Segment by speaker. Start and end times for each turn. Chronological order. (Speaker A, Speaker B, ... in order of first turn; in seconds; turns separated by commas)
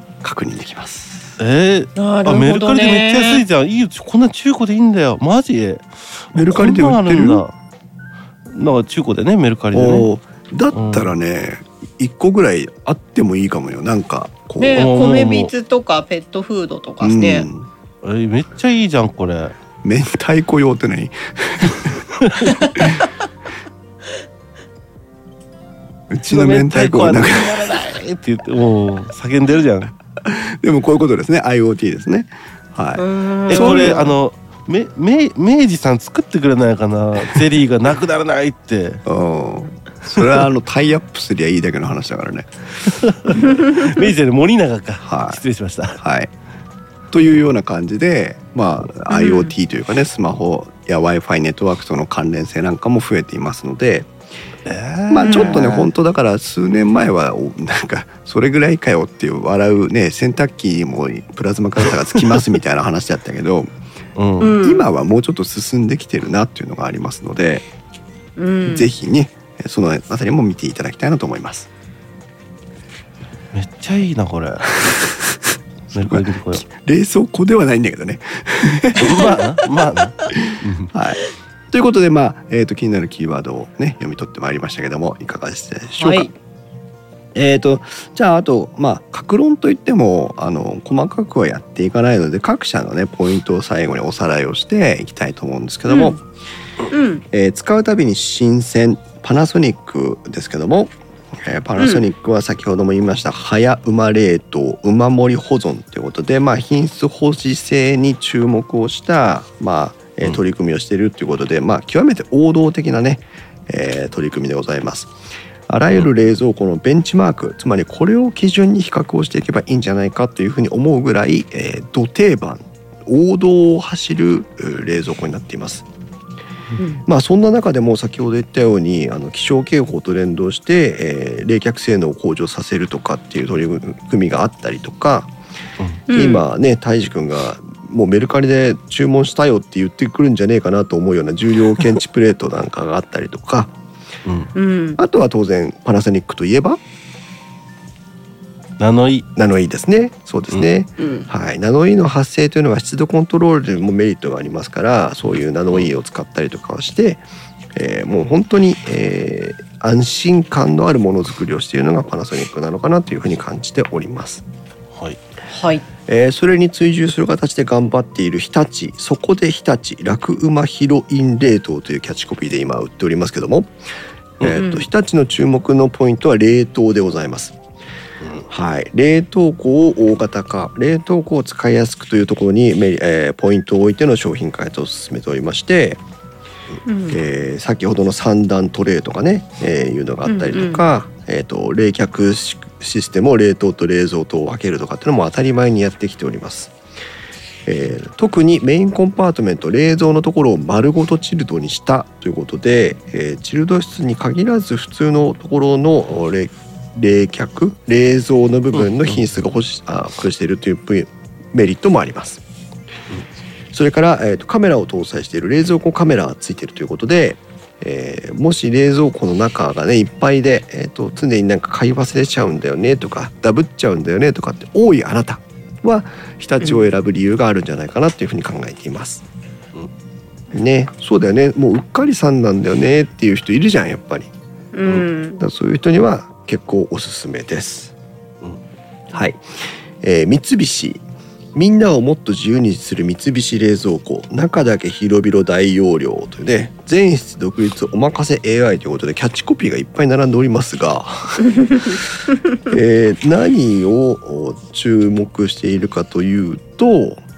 Speaker A: 0.2-1.4, Speaker B: 1.4-7.5, Speaker C: 2.0-3.4, Speaker A: 6.3-7.4, Speaker B: 8.5-10.1, Speaker A: 9.7-14.9, Speaker B: 10.7-11.1, Speaker C: 14.6-17.5, Speaker B: 14.7-15.5, Speaker A: 17.0-17.7, Speaker B: 18.0-19.6, Speaker A: 19.8-22.0, Speaker B: 22.2-22.7, Speaker C: 22.6-23.0, Speaker A: 22.8-23.1, Speaker A: 26.1-27.9, Speaker B: 26.3-29.9, Speaker A: 30.2-34.1, Speaker C: 33.0-34.1, Speaker B: 33.5-39.0, Speaker A: 39.1-43.5, Speaker B: 40.2-40.4, Speaker B: 42.9-46.0, Speaker C: 43.4-44.0, Speaker A: 45.0-45.4, Speaker A: 46.0-46.3, Speaker A: 47.1-54.1, Speaker C: 49.1-49.5, Speaker B: 54.7-55.9, Speaker A: 55.1-63.7, Speaker C: 55.2-55.8, Speaker B: 64.2-64.5, Speaker C: 64.4-64.9, Speaker A: 64.6-67.7, Speaker C: 68.4-68.9, Speaker A: 68.7-71.7, Speaker B: 73.5-75.0, Speaker A: 75.9-79.4, Speaker B: 75.9-76.7, Speaker B: 79.0-80.9, Speaker C: 79.0-79.4, Speaker A: 80.3-81.2, Speaker A: 81.7-86.3, Speaker C: 86.0-86.3, Speaker A: 87.3-96.2, Speaker C: 95.9-96.2, Speaker C: 96.9-97.2, Speaker A: 97.3-115.1, Speaker C: 101.8-102.0, Speaker A: 115.7-125.9, Speaker C: 126.8-127.0, Speaker A: 127.1-135.3, Speaker C: 136.1-136.4, Speaker A: 136.1-143.8, Speaker B: 144.3-144.5, Speaker C: 144.6-145.0, Speaker A: 145.0-146.8, Speaker B: 148.8-149.3, Speaker A: 149.4-157.2, Speaker C: 151.0-151.3, Speaker A: 157.8-164.4, Speaker C: 165.5-165.9, Speaker A: 166.1-173.7, Speaker A: 174.4-177.6, Speaker C: 174.5-174.9, Speaker A: 178.5-186.0, Speaker C: 186.9-187.2, Speaker A: 187.1-196.7, Speaker C: 190.3-190.8, Speaker A: 197.7-212.4, Speaker A: 213.7-229.2, Speaker A: 230.5-234.3, Speaker C: 234.7-235.4, Speaker A: 235.4-237.9, Speaker A: 239.1-239.4, Speaker A: 240.0-241.0, Speaker A: 241.6-252.1, Speaker A: 252.6-257.2